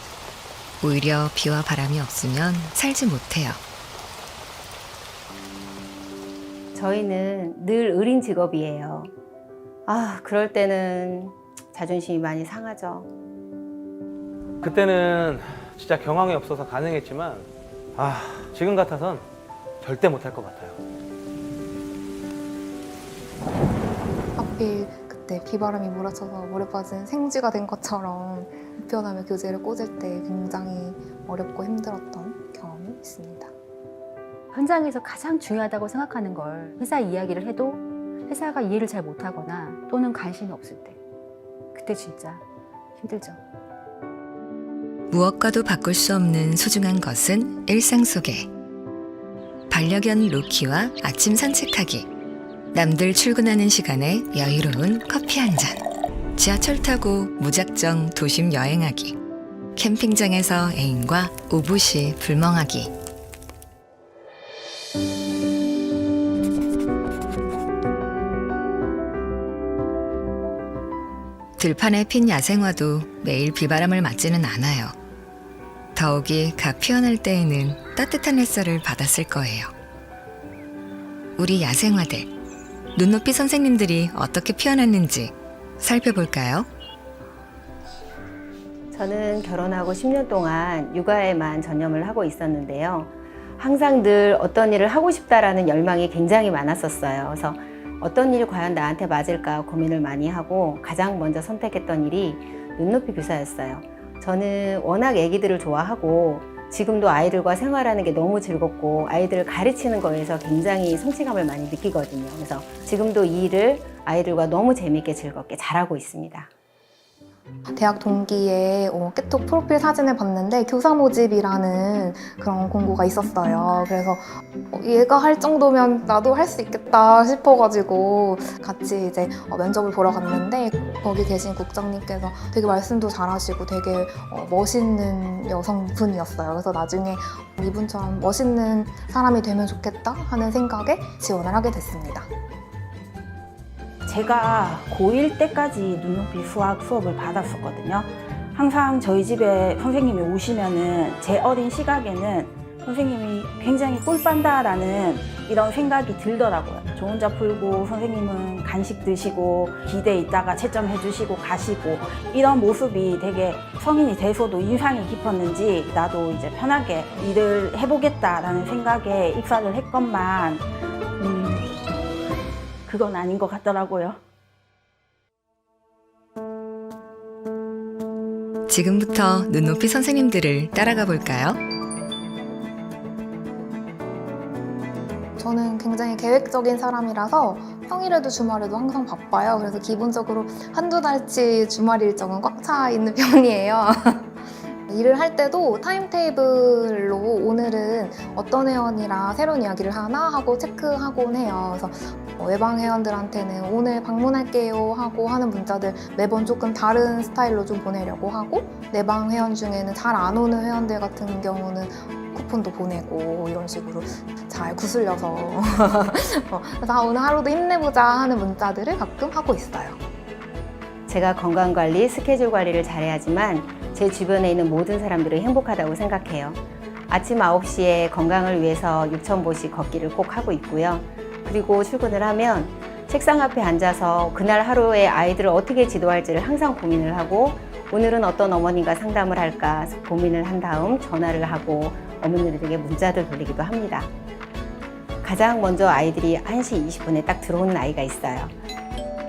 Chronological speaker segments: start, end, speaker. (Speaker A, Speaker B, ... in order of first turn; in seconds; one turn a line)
Speaker A: 0.8-3.6
Speaker B: 6.7-9.1
Speaker B: 9.9-13.1
Speaker C: 14.6-19.2
Speaker C: 19.8-20.8
Speaker D: 24.4-33.5
Speaker E: 34.5-41.0
Speaker E: 41.7-42.4
Speaker E: 43.0-43.4
Speaker A: 45.1-48.5
Speaker A: 49.7-52.1
Speaker A: 52.7-55.8
Speaker A: 56.3-59.2
Speaker A: 59.7-62.9
Speaker A: 71.6-74.9
Speaker A: 75.9-79.7
Speaker A: 81.4-82.3
Speaker A: 82.9-86.7
Speaker B: 88.9-116.5
Speaker D: 117.8-142.3
Speaker F: 144.1-170.7
Speaker F: 171.2-171.7
Speaker F: 172.9-174.2
Speaker A: 178.7-181.6
Speaker D: 185.4-220.0
Speaker B: 221.1-244.1
Speaker B: 245.2-248.5